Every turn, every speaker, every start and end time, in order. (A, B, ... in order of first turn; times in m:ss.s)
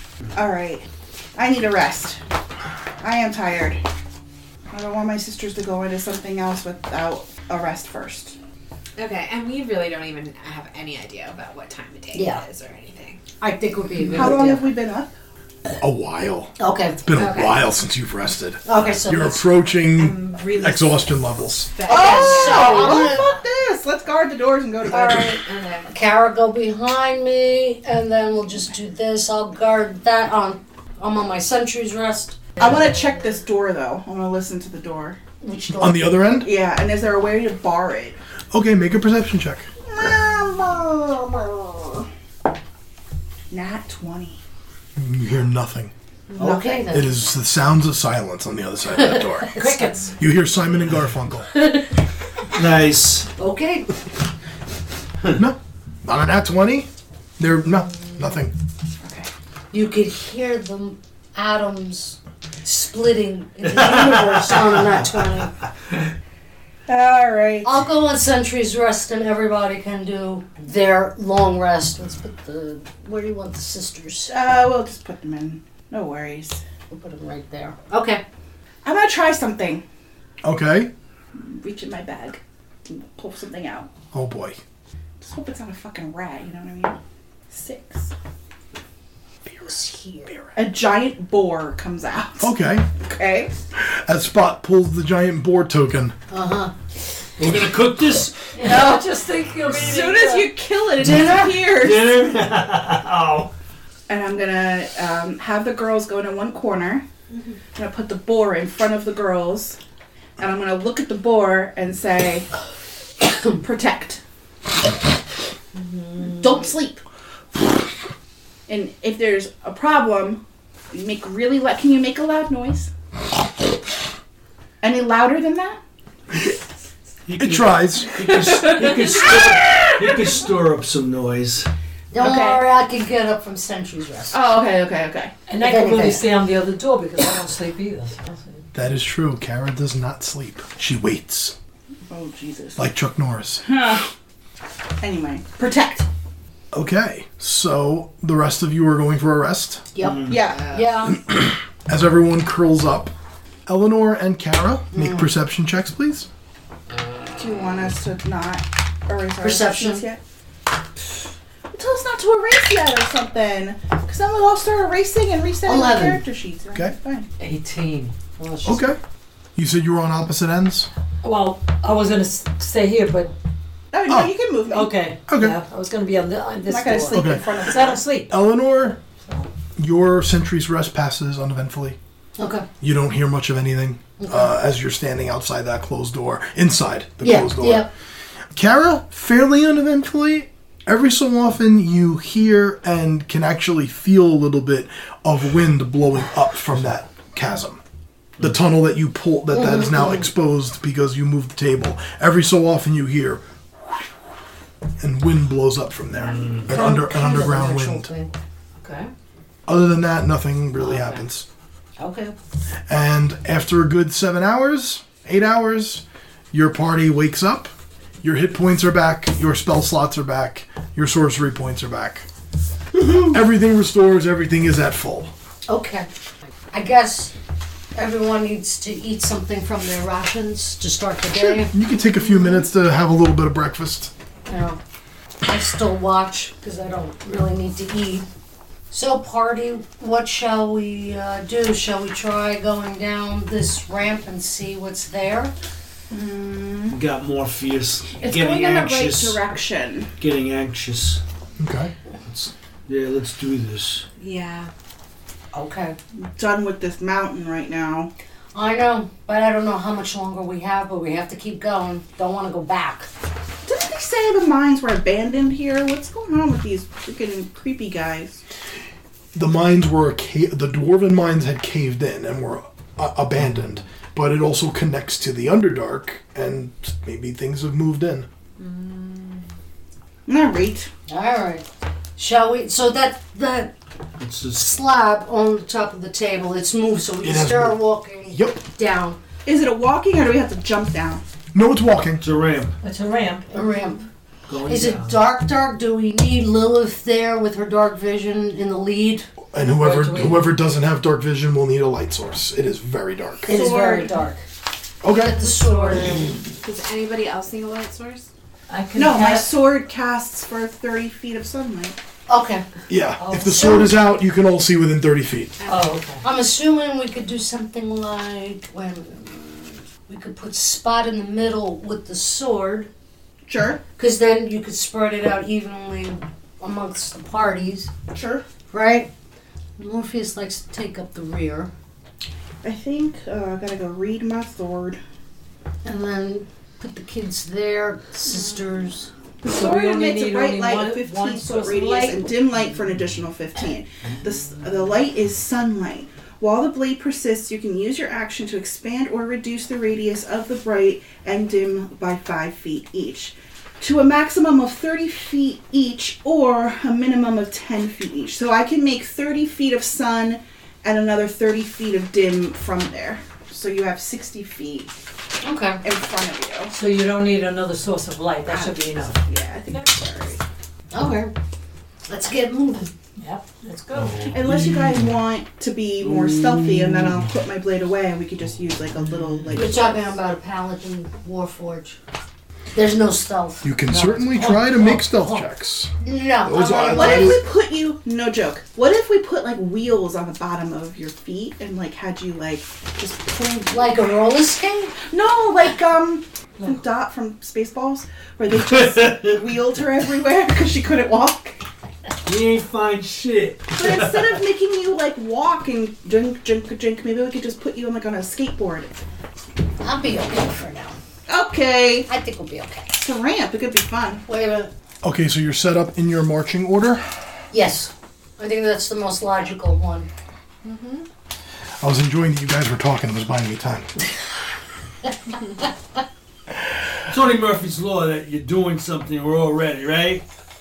0:00.4-0:02.2 A
0:03.0-0:03.8 A
0:04.7-0:08.4 A
0:09.0-0:13.2 B
0:12.1-0:12.4 C
0:13.4-0:14.7 C
0:14.1-0:15.1 A
0:15.8-0:21.8 D
0:16.6-0:17.0 C
0:17.1-0:17.7 B
0:18.6-0:19.4 C
0:20.0-0:23.3 B
0:21.9-0:23.3 C
0:21.9-0:25.4 A
0:24.9-0:25.9 B
0:25.9-0:32.7 C
0:32.6-0:35.2 A
0:35.4-0:36.2 C
0:35.8-0:36.5 D
0:36.4-0:38.2 A
0:38.5-0:39.7 D
0:39.9-0:42.1 A
0:43.5-0:44.4 A
0:45.0-0:45.9 D
0:46.4-0:47.1 C
0:46.4-0:46.8 A
0:46.9-0:49.6 D
0:49.5-0:50.2 E
0:50.2-0:51.5 D
0:52.6-0:53.3 F
0:53.4-0:53.9 C
0:55.4-0:58.5 D
0:59.0-0:59.3 A
0:59.7-1:05.5 C
1:06.9-1:07.7 A
1:07.6-1:14.3 C
1:14.3-1:16.6 A
1:16.9-1:18.2 C
1:18.8-1:19.8 A
1:20.4-1:20.9 D
1:21.4-1:23.9 A
1:24.1-1:24.6 D
1:25.2-1:27.0 A
1:27.5-1:28.1 A
1:29.5-1:30.5 D
1:29.6-1:30.3 C
1:30.6-1:33.5 A
1:32.4-1:32.9 D
1:33.7-1:36.2 D
1:36.3-1:36.7 C
1:37.4-1:38.4 F
1:38.6-1:40.5 E
1:38.6-1:39.0 C
1:38.7-1:39.0 A
1:39.7-1:42.4 A
1:41.0-1:41.6 C
1:41.7-1:43.5 F
1:44.1-1:47.0 A
1:47.7-1:49.8 A
1:50.4-1:52.5 A
1:53.6-1:54.2 A
1:55.8-1:56.4 B
1:56.2-1:57.0 A
1:58.7-2:02.9 A
2:04.8-2:05.8 A
2:07.3-2:11.7 F
2:07.4-2:08.1 D
2:08.2-2:10.0 B
2:12.1-2:14.4 C
2:12.2-2:12.6 A
2:14.3-2:15.4 A
2:15.5-2:18.6 E
2:15.6-2:16.3 C
2:18.7-2:21.6 D
2:22.1-2:22.8 A
2:22.8-2:23.6 D
2:23.6-2:24.1 A
2:25.0-2:26.1 A
2:26.7-2:29.9 D
2:29.9-2:31.2 C
2:30.3-2:30.9 A
2:31.1-2:33.1 D
2:33.7-2:36.3 D
2:34.9-2:35.2 C
2:37.4-2:40.2 A
2:39.4-2:40.0 C
2:41.7-2:47.3 A
2:45.7-2:46.2 C
2:47.4-2:48.8 E
2:48.6-2:49.0 D
2:49.6-2:50.9 D
2:51.2-2:53.3 E
2:53.9-2:55.0 A
2:54.1-2:54.3 D
2:54.7-2:58.3 E
2:55.3-2:55.6 D
2:56.7-2:58.0 A
2:57.1-2:57.6 D
2:58.3-2:59.0 D
2:59.8-3:02.0 D
3:02.4-3:02.7 C
3:02.8-3:07.9 D
3:07.2-3:07.9 C
3:08.6-3:17.8 D
3:18.4-3:23.4 D
3:19.5-3:20.3 C
3:25.0-3:28.1 D
3:26.7-3:28.3 C
3:28.8-3:29.1 E
3:29.7-3:31.5 D
3:30.8-3:31.2 C
3:32.0-3:32.4 C
3:32.9-3:42.3 D
3:43.3-3:45.3 D
3:45.7-3:46.1 C
3:46.7-3:47.3 C
3:48.0-3:51.7 C
3:51.3-3:54.1 D
3:54.5-3:54.8 C
3:55.4-3:58.3 C
3:58.9-4:05.5 C
4:06.1-4:07.0 A
4:06.9-4:09.4 F
4:08.2-4:10.1 A
4:10.2-4:11.2 F
4:11.6-4:11.9 D
4:12.3-4:14.0 F
4:14.2-4:14.7 B
4:15.5-4:16.0 C
4:16.2-4:18.1 A
4:18.5-4:23.1 C
4:23.6-4:28.4 A
4:29.3-4:38.3 D
4:38.6-4:39.4 B
4:40.3-4:40.9 A
4:41.1-4:41.6 C
4:42.2-4:43.7 C
4:44.2-4:44.7 F
4:44.5-4:49.2 C
4:47.2-4:48.6 D
4:49.4-4:51.2 A
4:51.5-4:52.2 D
4:52.2-4:52.8 F
4:52.8-4:53.5 E
4:53.5-4:54.1 C
4:54.5-4:55.2 F
4:54.6-4:59.3 C
4:59.5-5:03.6 D
4:59.6-5:00.5 E
5:03.5-5:04.4 C
5:03.6-5:04.1 A
5:05.0-5:05.4 D
5:05.1-5:06.3 C
5:05.4-5:06.3 E
5:06.6-5:08.3 B
5:08.7-5:09.5 E
5:09.0-5:12.0 A
5:12.3-5:12.6 C
5:12.9-5:15.6 D
5:13.2-5:13.9 C
5:15.7-5:16.2 E
5:16.2-5:22.9 C
5:23.5-5:23.8 A
5:24.0-5:27.9 C
5:28.1-5:28.4 A
5:28.7-5:29.1 C
5:29.8-5:31.7 C
5:32.6-5:35.0 A
5:35.8-5:39.1 C
5:39.4-6:04.9 A
5:39.5-5:42.4 E
6:05.4-6:05.8 C
6:05.8-6:06.7 A
6:06.7-6:09.2 E
6:08.5-6:10.4 A
6:10.9-6:11.3 C
6:12.1-6:12.9 C
6:13.2-6:14.4 E
6:14.0-6:15.1 F
6:14.3-6:20.0 A
6:16.0-6:17.3 F
6:19.5-6:22.0 C
6:22.7-6:23.7 C
6:23.6-6:27.4 D
6:23.9-6:25.4 E
6:26.0-6:27.4 C
6:26.8-6:34.0 A
6:33.4-6:35.0 C
6:35.0-6:41.6 A
6:38.8-6:39.3 F
6:42.2-6:44.4 F
6:43.7-6:49.0 A
6:49.8-6:51.0 C
6:51.3-6:52.1 A
6:52.1-6:52.9 C
6:52.9-6:54.2 A
6:54.3-6:54.7 C
6:55.0-6:57.0 D
6:57.5-7:00.1 C
7:00.6-7:01.1 B
7:01.8-7:03.9 D
7:07.1-7:10.2 F